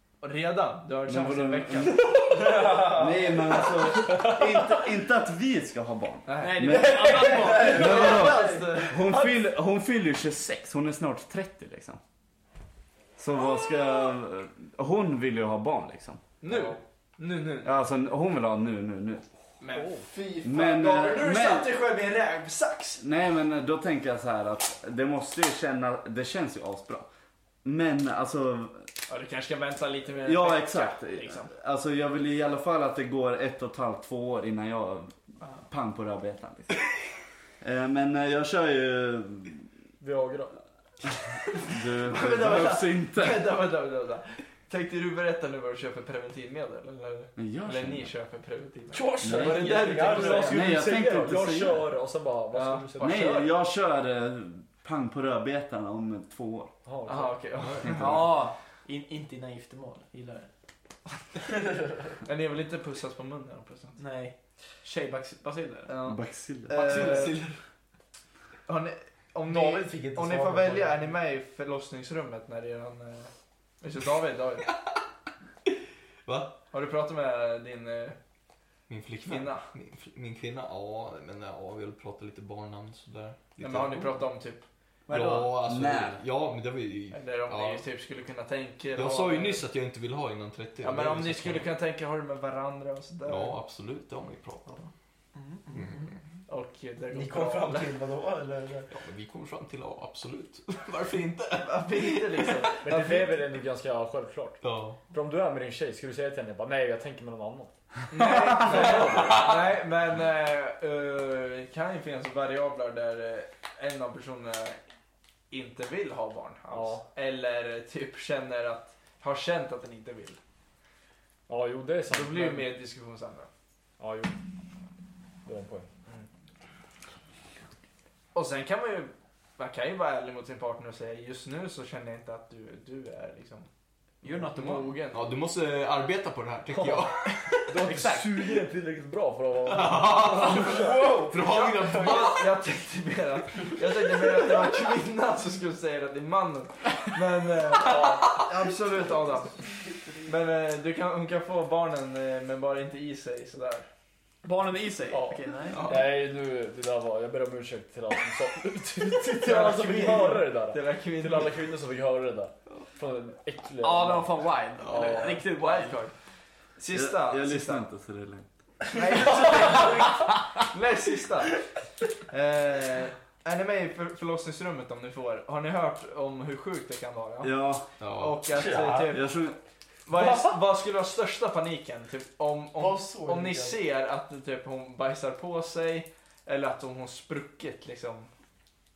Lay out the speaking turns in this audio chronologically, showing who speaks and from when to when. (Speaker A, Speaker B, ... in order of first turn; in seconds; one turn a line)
Speaker A: 0.2-2.1
Speaker B: 1.0-12.0
Speaker C: 2.3-3.2
Speaker D: 4.0-4.7
Speaker A: 6.2-9.3
Speaker E: 6.4-9.2
Speaker C: 7.3-8.7
Speaker B: 13.2-16.3
Speaker A: 16.4-17.7
Speaker D: 16.5-16.7
Speaker B: 17.6-19.2
Speaker A: 19.6-23.0
Speaker D: 19.7-20.1
Speaker B: 20.4-21.8
Speaker B: 23.0-27.1
Speaker B: 27.6-28.9
Speaker A: 29.1-31.5
Speaker B: 30.2-36.9
Speaker B: 37.6-39.6
Speaker D: 40.0-40.6
Speaker B: 41.6-43.5
Speaker A: 41.7-50.7
Speaker B: 47.4-48.1
Speaker C: 48.9-50.6
Speaker B: 49.2-49.6
Speaker E: 49.4-50.1
Speaker D: 49.6-53.5
Speaker B: 50.4-51.9
Speaker A: 52.5-53.4
Speaker B: 53.0-56.7
Speaker D: 56.8-57.4
Speaker A: 57.0-58.3
Speaker F: 57.6-57.9
Speaker B: 57.8-58.4
Speaker E: 58.0-60.5
Speaker A: 62.2-64.0
Speaker E: 64.0-65.9
Speaker A: 65.9-67.5
Speaker B: 66.0-67.3
Speaker F: 66.8-67.2
Speaker A: 68.7-74.7
Speaker C: 69.5-71.1
Speaker F: 74.6-75.0
Speaker F: 76.2-76.5
Speaker A: 76.7-78.2
Speaker F: 78.9-84.2
Speaker A: 79.2-79.6
Speaker A: 83.6-85.5
Speaker B: 85.1-86.2
Speaker F: 85.1-87.8
Speaker A: 87.1-89.7
Speaker F: 88.9-91.7
Speaker A: 90.8-93.6
Speaker F: 93.3-94.8
Speaker E: 95.3-96.1
Speaker F: 95.7-96.1
Speaker A: 96.5-97.9
Speaker C: 97.1-98.9
Speaker F: 98.9-102.8
Speaker A: 101.5-103.5
Speaker D: 102.8-107.7
Speaker F: 104.6-105.0
Speaker A: 108.1-114.8
Speaker B: 108.2-108.6
Speaker D: 108.5-109.5
Speaker F: 108.7-109.7
Speaker A: 115.5-120.4
Speaker D: 116.7-117.0
Speaker D: 121.5-122.7
Speaker A: 122.1-123.5
Speaker D: 124.0-124.3
Speaker D: 125.5-125.9
Speaker A: 128.3-133.7
Speaker E: 134.2-135.0
Speaker A: 134.2-135.3
Speaker F: 135.1-138.5
Speaker D: 136.7-137.1
Speaker D: 137.7-140.7
Speaker E: 137.8-138.1
Speaker F: 139.7-142.6
Speaker C: 140.5-142.1
Speaker A: 141.3-153.9
Speaker D: 147.9-148.2
Speaker F: 148.0-148.4
Speaker E: 154.4-155.8
Speaker D: 155.1-165.5
Speaker A: 155.7-156.1
Speaker A: 159.3-161.7
Speaker E: 163.8-166.0
Speaker A: 164.9-166.1
Speaker A: 166.8-167.8
Speaker B: 166.9-168.5
Speaker A: 168.9-171.6
Speaker C: 169.0-169.9
Speaker A: 172.3-179.4
Speaker B: 177.4-177.8
Speaker F: 178.0-178.4
Speaker C: 178.6-179.2
Speaker B: 179.1-179.6
Speaker A: 180.1-188.3
Speaker D: 180.2-180.5
Speaker C: 182.8-183.8